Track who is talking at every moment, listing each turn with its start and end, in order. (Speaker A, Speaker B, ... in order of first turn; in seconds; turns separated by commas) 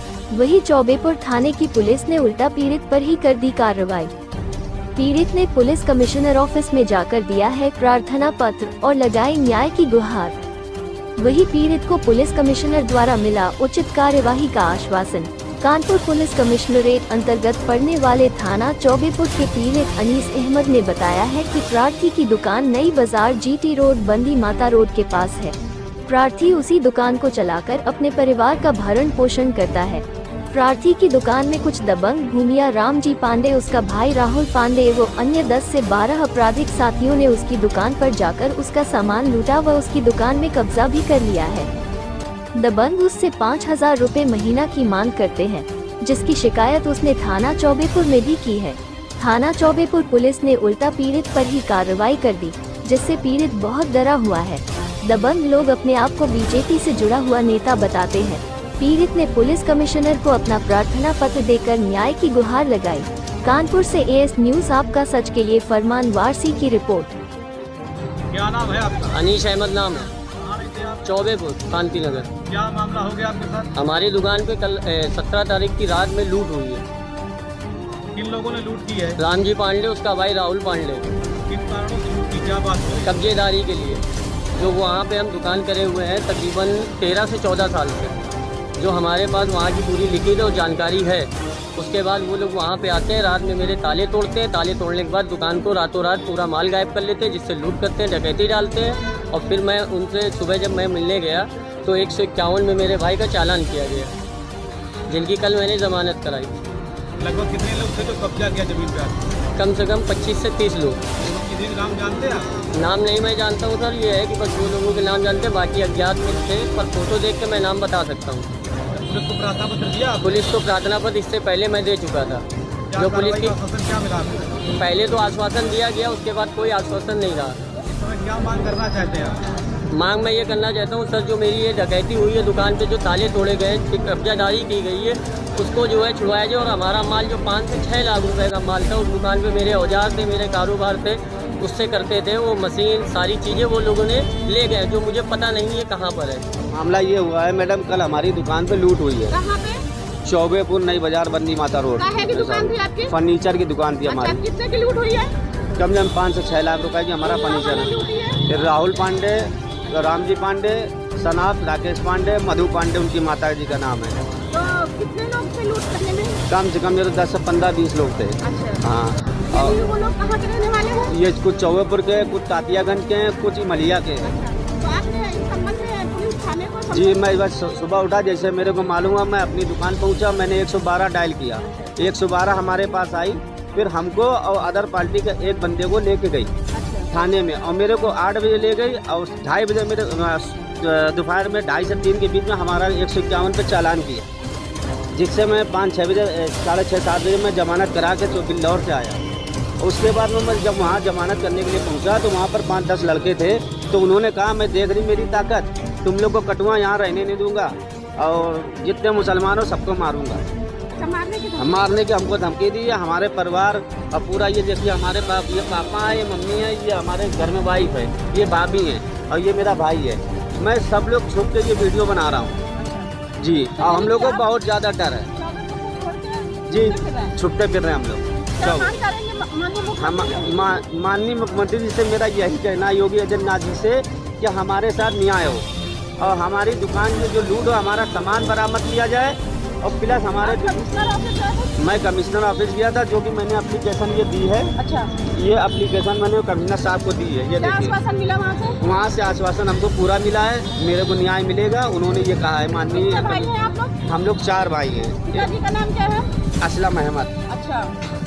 Speaker A: 0.3-4.1, Speaker A: 5.0-10.4, Speaker A: 11.2-25.6, Speaker A: 26.1-41.7, Speaker A: 42.6-67.2, Speaker B: 68.3-69.3, Speaker C: 69.1-70.1, Speaker B: 70.3-71.2, Speaker C: 71.0-72.3, Speaker B: 72.5-73.7, Speaker C: 73.8-76.8, Speaker B: 78.1-79.2, Speaker C: 79.2-81.1, Speaker B: 81.5-83.2, Speaker C: 83.0-84.0, Speaker C: 84.6-88.2, Speaker C: 88.8-104.1, Speaker C: 105.1-106.6, Speaker B: 107.2-109.2, Speaker C: 109.6-111.0, Speaker B: 111.2-112.5, Speaker C: 112.8-118.5, Speaker B: 118.9-120.3, Speaker C: 120.2-123.5, Speaker B: 122.9-124.6, Speaker C: 124.8-127.6, Speaker B: 127.8-129.5, Speaker C: 129.9-146.4, Speaker D: 146.7-149.4, Speaker E: 149.3-149.8, Speaker D: 150.2-154.4, Speaker E: 152.0-153.1, Speaker E: 154.1-155.3, Speaker D: 155.8-157.9, Speaker E: 157.2-158.4, Speaker D: 158.4-164.2, Speaker E: 164.5-166.4, Speaker D: 166.5-169.8, Speaker E: 168.4-168.8, Speaker E: 169.5-171.2, Speaker D: 171.1-174.3, Speaker E: 174.2-177.2, Speaker D: 176.9-186.5, Speaker E: 186.7-187.1, Speaker D: 187.1-194.3, Speaker D: 195.2-199.2, Speaker D: 199.8-210.4, Speaker E: 210.9-211.9, Speaker D: 211.6-222.6, Speaker E: 222.8-223.1, Speaker D: 223.4-225.3, Speaker E: 223.8-224.4, Speaker E: 225.4-227.3, Speaker D: 226.7-228.9, Speaker E: 228.6-230.8, Speaker D: 230.0-235.7, Speaker D: 236.2-240.8, Speaker E: 240.4-241.8, Speaker D: 241.8-244.7, Speaker E: 244.8-245.2, Speaker D: 245.3-247.9, Speaker E: 247.6-248.8, Speaker D: 248.8-253.5, Speaker E: 252.9-254.0, Speaker D: 254.1-255.5, Speaker E: 255.2-256.3, Speaker D: 256.6-257.3, Speaker E: 257.5-257.9